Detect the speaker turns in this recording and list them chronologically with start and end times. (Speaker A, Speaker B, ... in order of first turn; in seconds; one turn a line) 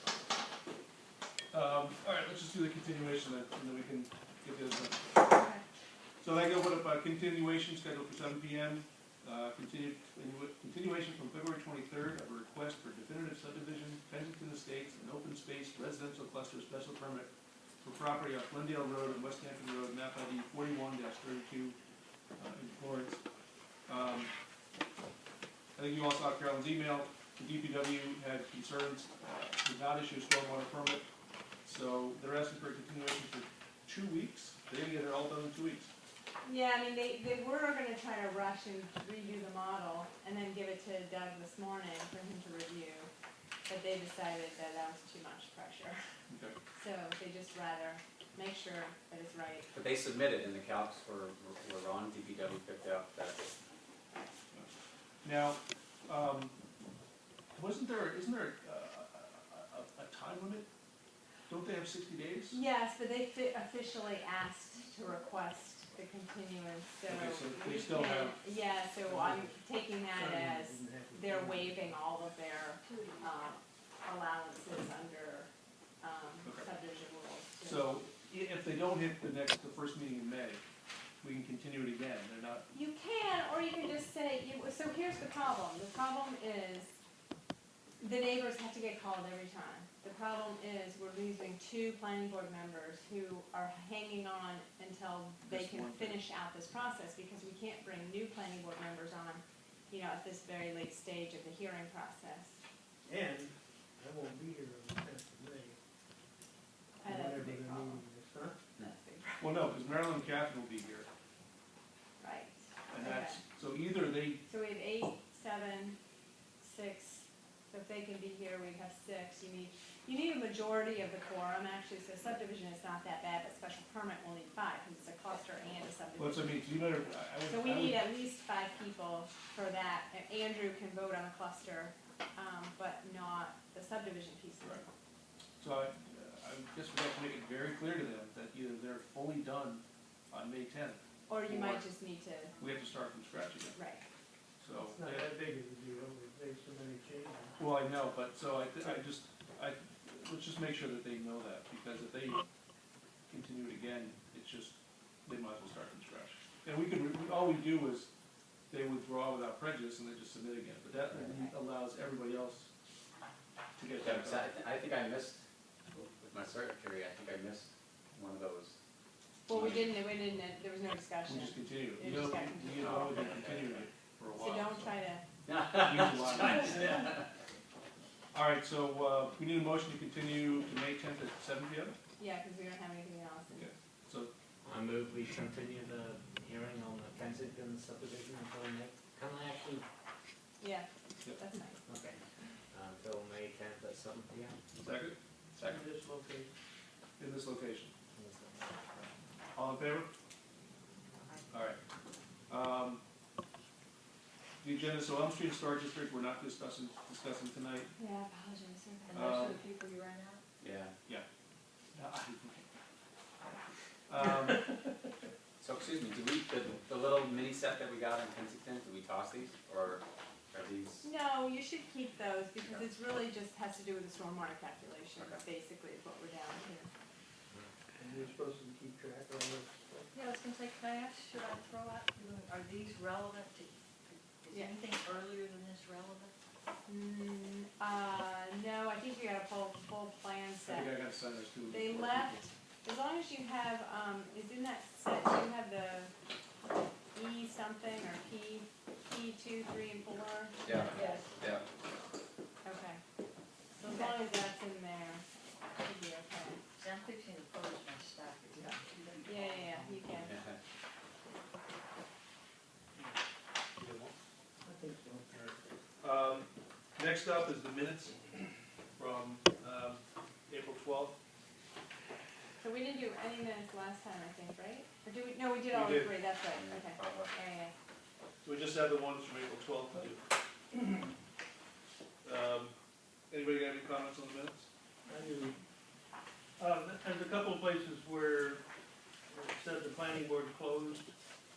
Speaker A: 1.5-5.0
Speaker B: 5.3-5.6
Speaker A: 6.2-17.3
Speaker A: 17.8-21.8
Speaker A: 22.4-23.2
Speaker A: 23.9-24.3
Speaker A: 25.8-31.0
Speaker A: 31.6-35.9
Speaker B: 36.4-43.1
Speaker B: 43.7-46.0
Speaker A: 46.3-46.5
Speaker B: 46.7-49.7
Speaker C: 49.7-53.5
Speaker A: 55.2-56.5
Speaker A: 57.5-60.7
Speaker A: 61.5-62.6
Speaker B: 62.5-75.5
Speaker A: 67.0-68.4
Speaker D: 69.0-72.0
Speaker E: 72.8-73.5
Speaker B: 76.0-77.9
Speaker A: 76.4-76.7
Speaker A: 77.6-80.6
Speaker A: 81.2-82.6
Speaker B: 82.7-87.0
Speaker B: 88.0-102.6
Speaker A: 95.4-96.2
Speaker D: 103.0-105.8
Speaker B: 107.0-108.0
Speaker D: 107.0-108.6
Speaker B: 108.8-109.5
Speaker A: 109.4-111.1
Speaker B: 112.2-113.4
Speaker A: 112.9-114.4
Speaker B: 114.5-116.0
Speaker B: 116.6-126.7
Speaker A: 126.2-128.0
Speaker B: 127.4-134.8
Speaker A: 135.6-141.8
Speaker B: 141.3-142.5
Speaker A: 142.6-143.8
Speaker B: 143.7-144.0
Speaker A: 144.6-145.3
Speaker D: 144.7-147.6
Speaker A: 147.6-152.4
Speaker A: 153.3-158.1
Speaker A: 158.7-162.7
Speaker A: 163.8-164.4
Speaker C: 164.0-165.4
Speaker C: 165.9-168.8
Speaker B: 169.5-173.4
Speaker C: 169.5-169.8
Speaker A: 171.2-174.9
Speaker C: 172.8-173.8
Speaker B: 174.3-175.2
Speaker C: 175.4-177.3
Speaker A: 175.7-177.1
Speaker A: 178.3-181.9
Speaker B: 182.2-183.7
Speaker A: 183.5-184.3
Speaker F: 184.6-189.8
Speaker B: 190.6-191.8
Speaker F: 191.8-194.6
Speaker A: 194.8-195.2
Speaker C: 195.5-195.8
Speaker D: 195.6-196.5
Speaker A: 197.2-197.9
Speaker F: 198.1-199.0
Speaker A: 199.5-200.1
Speaker A: 201.5-201.8
Speaker A: 202.5-203.0
Speaker A: 204.6-207.9
Speaker E: 208.5-210.4
Speaker A: 209.1-209.6
Speaker C: 210.6-210.9
Speaker A: 211.9-212.7
Speaker A: 213.4-214.7
Speaker C: 215.6-221.1
Speaker B: 221.0-226.9
Speaker D: 228.0-230.1
Speaker E: 230.1-236.3
Speaker B: 234.5-234.7
Speaker B: 236.8-241.0
Speaker A: 240.7-242.5
Speaker B: 241.7-246.1
Speaker B: 247.1-251.2
Speaker C: 250.6-251.6
Speaker B: 252.6-253.0
Speaker B: 253.7-255.2
Speaker B: 255.8-256.6
Speaker E: 256.8-259.8
Speaker B: 259.2-260.4
Speaker C: 260.2-260.5
Speaker A: 263.8-264.1
Speaker D: 264.6-265.3
Speaker A: 265.3-268.3
Speaker A: 269.0-271.1
Speaker B: 272.6-277.7
Speaker A: 275.7-276.1
Speaker C: 276.5-277.3
Speaker A: 278.4-280.9
Speaker A: 282.2-282.7
Speaker A: 283.3-284.7
Speaker D: 285.1-285.6
Speaker D: 286.6-288.6
Speaker D: 289.3-291.1